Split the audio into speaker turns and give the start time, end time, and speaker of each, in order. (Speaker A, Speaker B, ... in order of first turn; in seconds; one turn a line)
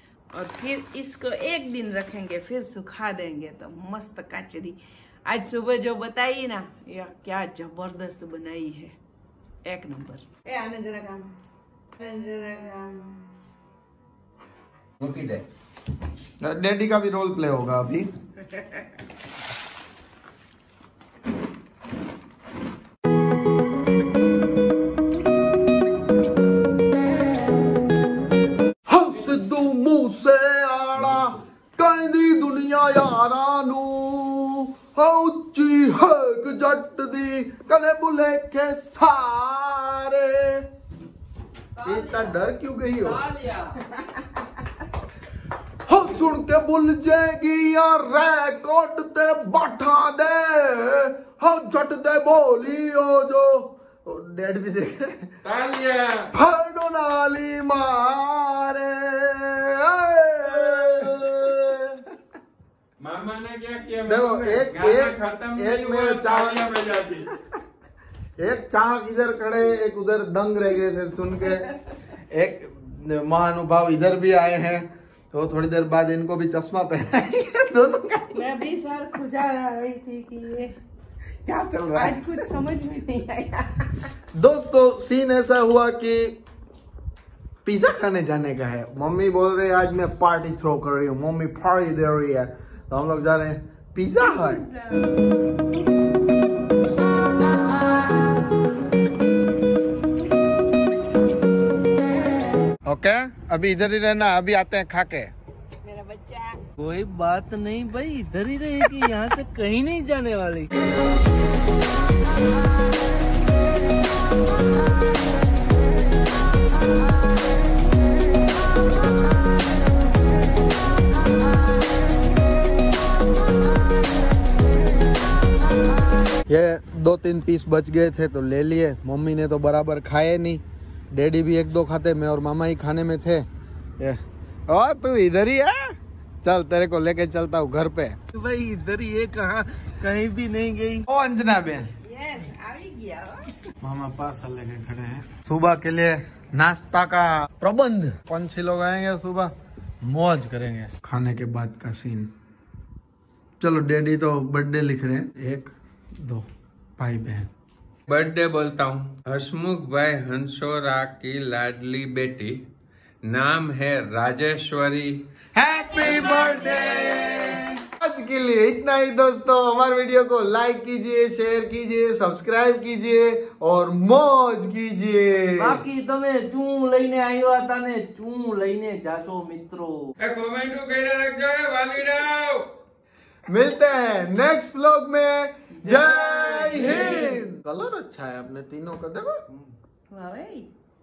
Speaker A: 0.3-8.9
Speaker A: 9.6-11.3
Speaker A: 12.0-13.2
Speaker B: 15.0-15.4
Speaker C: 16.4-18.1
Speaker C: 28.9-40.6
Speaker B: 31.0-31.4
Speaker C: 41.8-43.3
Speaker C: 45.9-55.3
Speaker B: 55.4-56.3
Speaker C: 56.3-62.1
Speaker B: 60.8-61.1
Speaker B: 63.0-67.3
Speaker C: 64.0-66.7
Speaker C: 68.4-71.7
Speaker C: 72.2-78.4
Speaker A: 78.3-80.7
Speaker A: 81.5-84.1
Speaker C: 81.5-82.2
Speaker C: 84.3-86.4
Speaker C: 87.6-94.6
Speaker A: 94.2-95.2
Speaker C: 102.8-105.3
Speaker A: 105.8-106.6
Speaker D: 106.8-110.7
Speaker C: 126.5-133.4
Speaker C: 134.0-138.2
Speaker D: 138.3-141.0
Speaker C: 141.1-141.9
Speaker A: 142.0-143.5
Speaker C: 143.8-152.3
Speaker C: 153.6-156.5
Speaker C: 157.0-157.5
Speaker B: 158.1-162.6
Speaker B: 163.2-165.2
Speaker C: 165.5-175.8
Speaker A: 166.0-167.2
Speaker D: 175.6-180.1
Speaker B: 180.2-182.7
Speaker C: 183.5-189.4
Speaker A: 185.9-187.3
Speaker A: 190.1-190.7